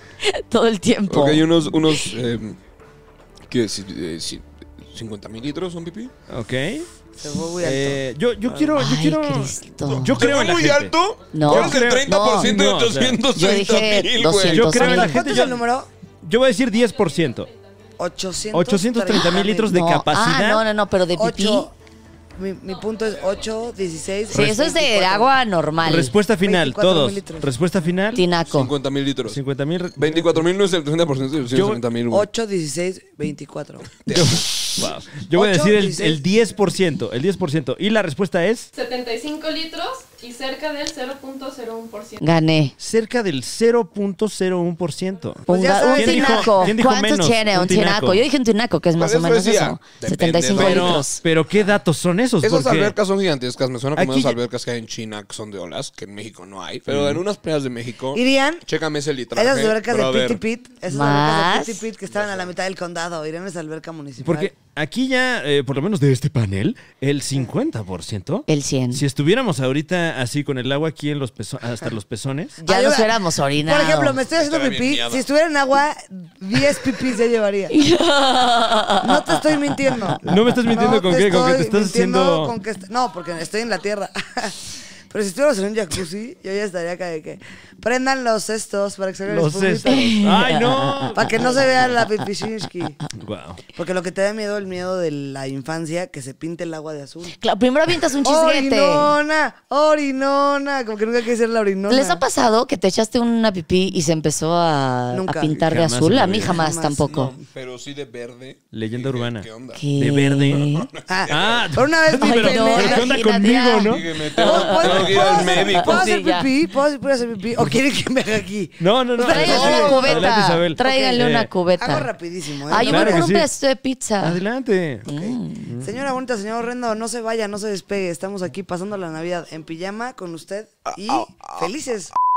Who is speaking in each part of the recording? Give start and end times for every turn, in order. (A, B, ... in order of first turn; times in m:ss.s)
0:00.2-0:02.1 A
0:01.1-0:02.6 B
0:03.5-0:06.1 B
0:06.3-0:06.9 C
0:07.2-0:08.8 D
0:07.6-0:13.2 C
0:08.8-0:10.3 A
0:10.0-0:14.8 B
0:11.3-0:12.6 A
0:13.3-0:15.3 A
0:14.4-0:15.6 C
0:14.7-0:15.9 D
0:16.2-0:17.5 C
0:16.5-0:18.4 E
0:18.0-0:19.7 D
0:18.5-0:20.6 C
0:19.2-0:21.7 A
0:21.2-0:21.7 D
0:22.4-0:25.3 D
0:22.6-0:24.4 E
0:24.3-0:26.1 A
0:24.3-0:24.6 C
0:25.8-0:28.2 C
0:26.4-0:27.5 D
0:28.1-0:28.7 A
0:28.4-0:29.4 B
0:29.3-0:30.4 C
0:30.0-0:32.3 B
0:31.5-0:31.8 C
0:32.1-0:33.9 D
0:34.0-0:34.5 B
0:34.1-0:38.7 C
0:35.3-0:36.2 D
0:38.7-0:42.3 E
0:42.2-0:42.7 A
0:42.8-0:48.2 C
0:45.5-0:51.2 A
0:45.5-0:46.8 D
0:49.0-0:51.0 B
0:50.5-0:53.0 C
0:52.4-1:00.4 B
0:53.9-0:54.4 C
0:56.9-0:57.2 C
0:58.1-0:58.6 D
0:59.3-1:04.5 D
1:00.9-1:01.8 A
1:02.1-1:02.5 B
1:04.2-1:12.6 C
1:08.5-1:09.0 A
1:12.6-1:17.7 D
1:12.6-1:14.2 A
1:14.4-1:15.2 B
1:17.7-1:19.6 A
1:19.0-1:24.6 D
1:20.2-1:22.5 C
1:25.1-1:30.4 D
1:29.3-1:31.5 C
1:29.9-1:31.5 A
1:31.1-1:33.0 D
1:33.2-1:33.6 C
1:33.7-1:37.3 D
1:37.4-1:39.1 A
1:38.2-1:42.2 D
1:41.9-1:47.3 A
1:45.1-1:45.6 D
1:45.6-1:46.6 C
1:46.4-1:47.1 D
1:47.1-1:49.8 B
1:48.7-1:50.7 C
1:49.8-1:50.9 A
1:50.9-1:51.6 B
1:51.1-1:53.2 D
1:51.3-1:54.1 C
1:52.2-1:56.5 A
1:53.8-1:56.1 B
1:54.4-2:01.2 D
1:54.8-1:55.4 C
1:58.8-2:01.5 C
1:59.2-2:02.1 A
1:59.5-1:59.9 B
2:01.8-2:03.3 D
2:02.7-2:04.4 A
2:02.8-2:03.5 C
2:04.2-2:05.1 C
2:05.0-2:05.6 A
2:05.1-2:12.1 D
2:05.6-2:05.9 C
2:10.9-2:11.7 B